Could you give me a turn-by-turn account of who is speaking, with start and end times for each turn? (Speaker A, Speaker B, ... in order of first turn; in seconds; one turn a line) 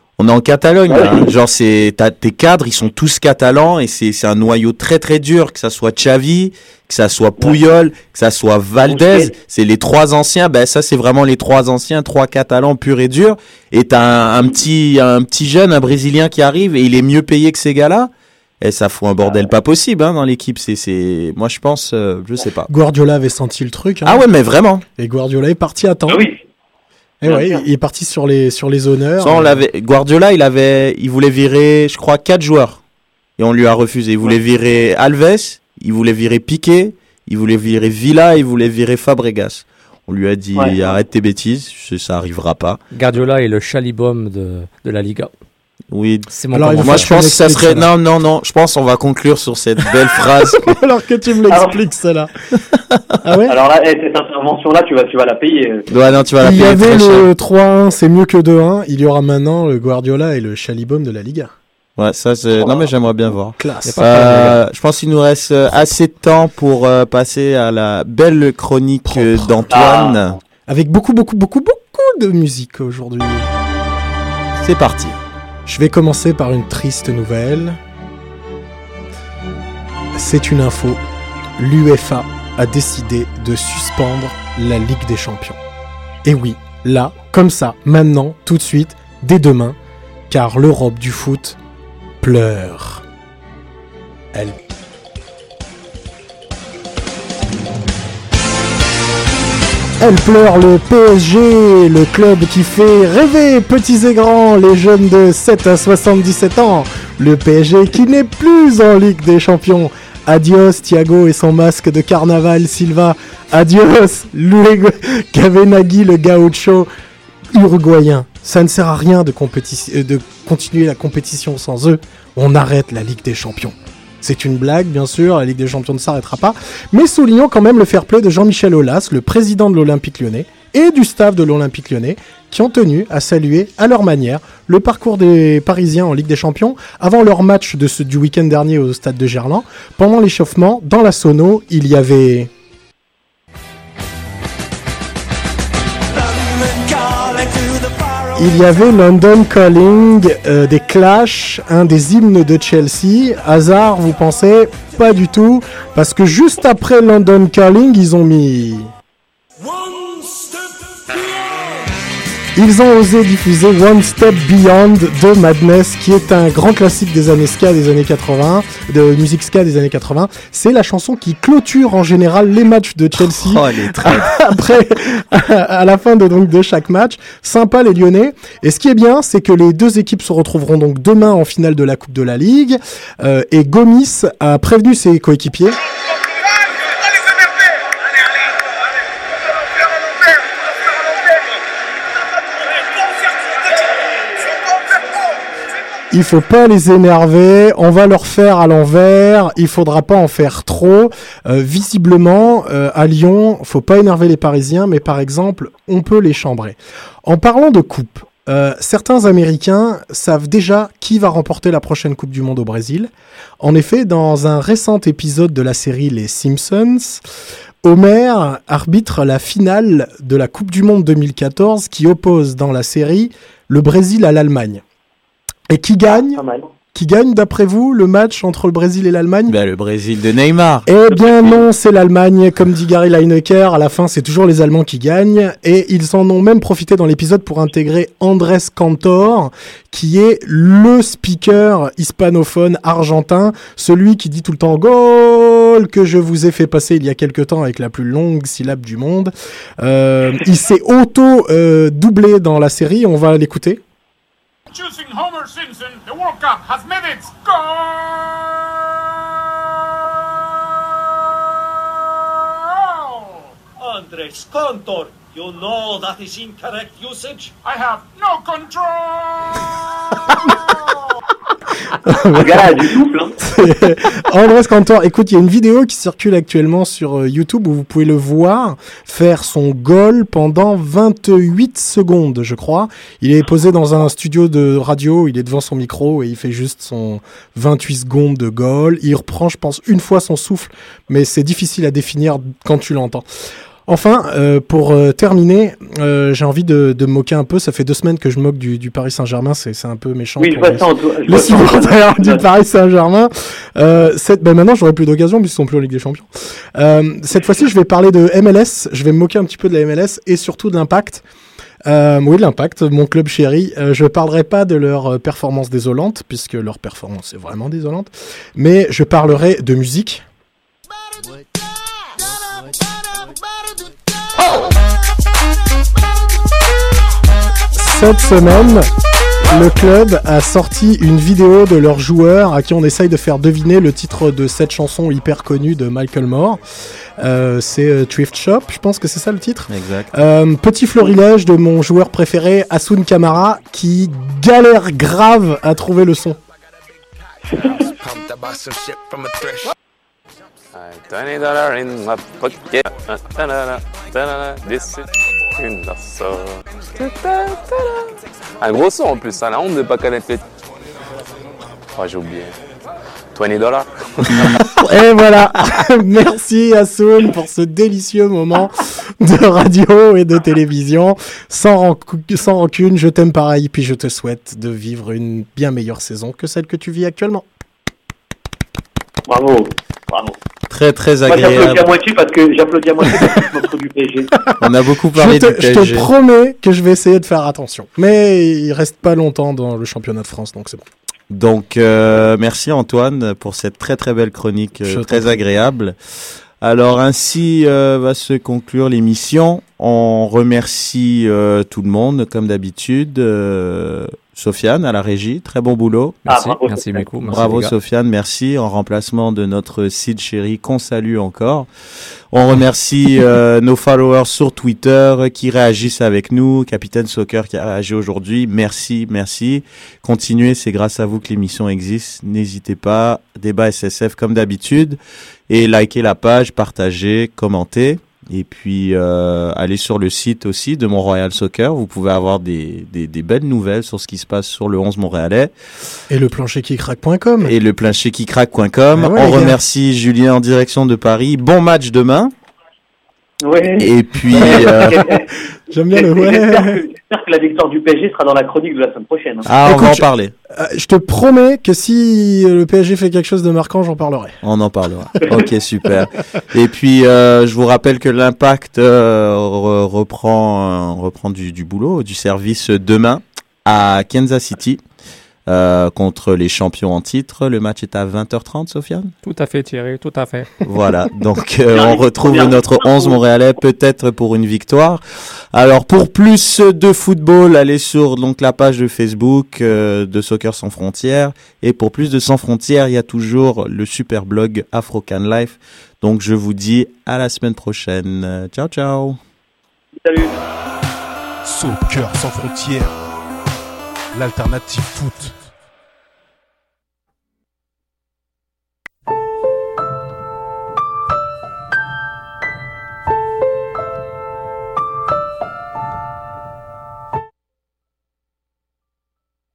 Speaker A: 0.2-18.1
Speaker B: 0.9-1.3
Speaker B: 8.9-9.3
Speaker A: 18.6-22.7
Speaker C: 22.7-24.2
Speaker A: 24.0-24.8
Speaker C: 25.0-26.2
Speaker B: 26.1-26.4
Speaker C: 27.2-29.6
Speaker B: 27.2-27.6
Speaker A: 29.2-32.8
Speaker A: 33.4-42.8
Speaker B: 40.5-41.0
Speaker D: 42.9-45.3
Speaker A: 45.9-50.8
Speaker D: 46.3-47.1
Speaker C: 46.5-47.8
Speaker C: 50.5-52.6
Speaker B: 51.5-51.8
Speaker C: 53.2-53.5
Speaker B: 53.5-55.9
Speaker A: 55.9-57.3
Speaker C: 56.4-61.5
Speaker A: 62.0-70.4
Speaker C: 63.6-64.1
Speaker D: 63.8-64.6
Speaker C: 69.1-69.5
Speaker B: 69.7-70.2
Speaker C: 70.7-73.5
Speaker A: 74.6-75.2
Speaker C: 75.7-77.8
Speaker C: 80.1-81.0
Speaker C: 81.6-85.6
Speaker C: 86.2-89.8
Speaker C: 90.3-91.6
Speaker C: 92.2-93.0
Speaker C: 100.0-116.9
Speaker C: 117.5-142.5
Speaker E: 146.1-148.5
Speaker C: 148.4-158.9
Speaker F: 159.9-160.4
Speaker C: 162.6-185.8
Speaker A: 173.2-174.5
Speaker C: 196.1-213.1
Speaker C: 213.6-217.2
Speaker C: 217.8-224.8
Speaker C: 225.7-226.4
Speaker B: 226.1-226.7
Speaker C: 226.9-229.5
Speaker A: 229.5-230.9
Speaker C: 230.9-253.8
Speaker B: 231.1-231.6
Speaker F: 254.7-258.6
Speaker F: 262.4-263.5
Speaker E: 266.9-267.3
Speaker F: 267.6-271.1
Speaker C: 272.1-293.2
Speaker B: 272.3-273.4
Speaker C: 293.9-311.2
Speaker B: 300.4-302.5
Speaker C: 311.9-320.2
Speaker C: 327.8-328.9
Speaker C: 329.4-336.6
Speaker C: 337.2-346.4
Speaker A: 339.7-340.1
Speaker E: 347.6-349.7
Speaker G: 350.7-360.4
Speaker G: 361.9-362.5
Speaker G: 363.3-363.9
Speaker A: 364.3-364.6
Speaker C: 364.3-377.4
Speaker B: 379.3-380.4
Speaker A: 380.7-381.8
Speaker B: 381.3-384.3
Speaker A: 384.6-386.1
Speaker C: 385.1-390.8
Speaker A: 391.3-395.9
Speaker C: 394.9-395.4
Speaker A: 396.6-406.2
Speaker D: 406.2-407.7
Speaker B: 406.3-407.1
Speaker A: 407.2-411.7
Speaker A: 412.3-435.5
Speaker C: 436.1-437.5
Speaker A: 437.4-442.3
Speaker C: 439.0-439.6
Speaker B: 443.4-445.4
Speaker A: 443.8-445.1
Speaker C: 444.3-444.8
Speaker C: 445.7-446.8
Speaker B: 445.9-449.5
Speaker A: 449.4-450.3
Speaker C: 449.6-454.3
Speaker A: 454.4-464.8
Speaker A: 465.5-469.1
Speaker D: 469.3-470.4
Speaker A: 470.6-475.0
Speaker B: 471.7-473.2
Speaker A: 475.5-489.2
Speaker B: 490.0-490.4
Speaker H: 491.4-493.0
Speaker H: 494.1-495.4